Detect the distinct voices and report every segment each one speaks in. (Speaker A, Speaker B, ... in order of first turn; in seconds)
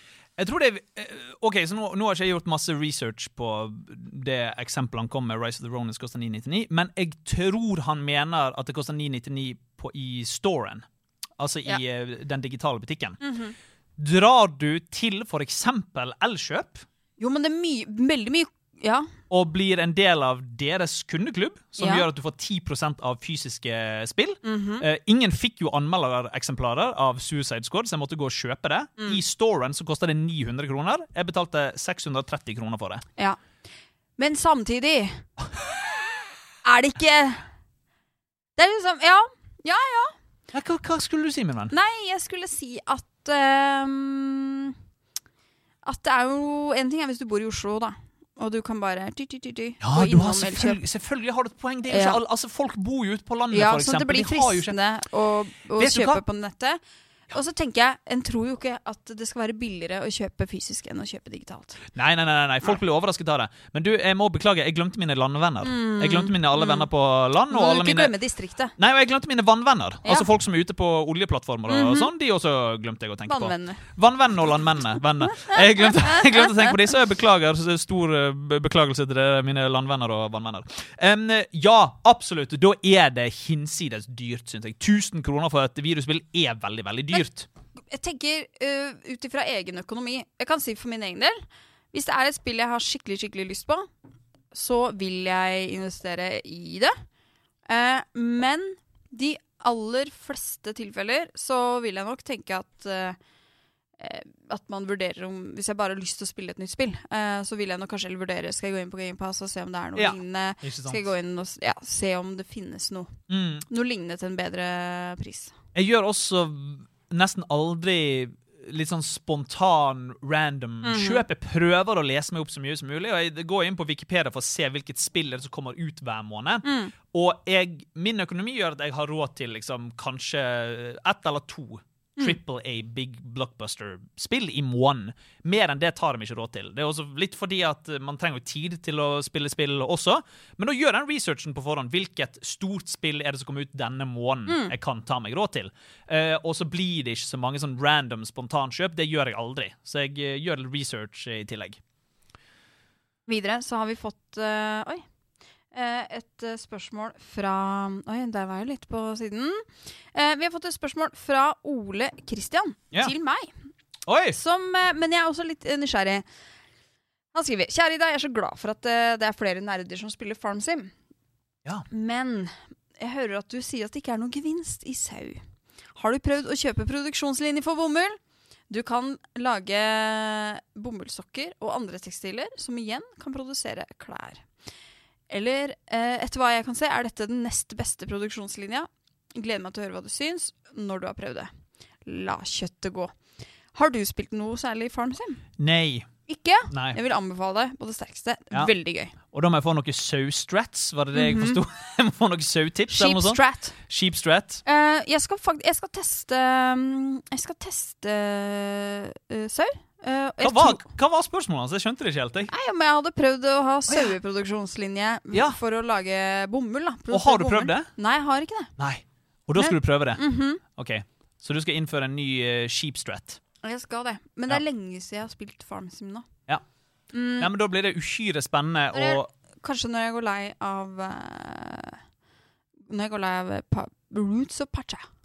Speaker A: 0.4-10.8, 11.4-13.2, 14.0-16.9, 19.3-33.0, 40.5-41.7, 49.8-54.8, 55.8-56.2, 62.0-68.1, 68.8-87.5, 110.0-111.0, 113.3-113.7, 115.8-151.8, 164.1-164.4, 195.6-196.1, 196.7-197.0, 199.3-204.6, 210.4-212.5, 213.9-214.2, 217.1-217.9, 218.8-223.4, 227.4-229.3
Speaker B: 13.2-13.5, 17.2-19.1, 21.8-22.1, 24.4-24.9, 34.2-35.2, 36.6-37.5, 38.6-40.1, 41.7-44.8, 45.9-50.8, 51.9-52.2, 53.5-56.8, 57.3-61.8, 65.6-66.9, 67.5-68.7, 71.7-72.1, 73.3-73.8, 75.3-76.7, 87.9-91.4, 91.9-93.9, 94.5-96.9, 97.7-103.2, 104.0-113.1, 113.7-115.5, 120.8-121.2, 126.6-126.9, 144.5-144.7, 153.3-155.0, 155.7-163.5, 164.3-166.2, 167.3-170.9, 171.9-175.4, 176.0-178.2, 178.7-184.4, 185.3-191.5, 192.1-193.1, 193.8-195.4, 196.3-199.1, 201.2-201.6, 202.9-203.8, 204.7-210.8, 212.5-218.7, 219.6-220.6, 223.6-226.3, 227.1-227.5, 228.9-232.0, 232.9-235.1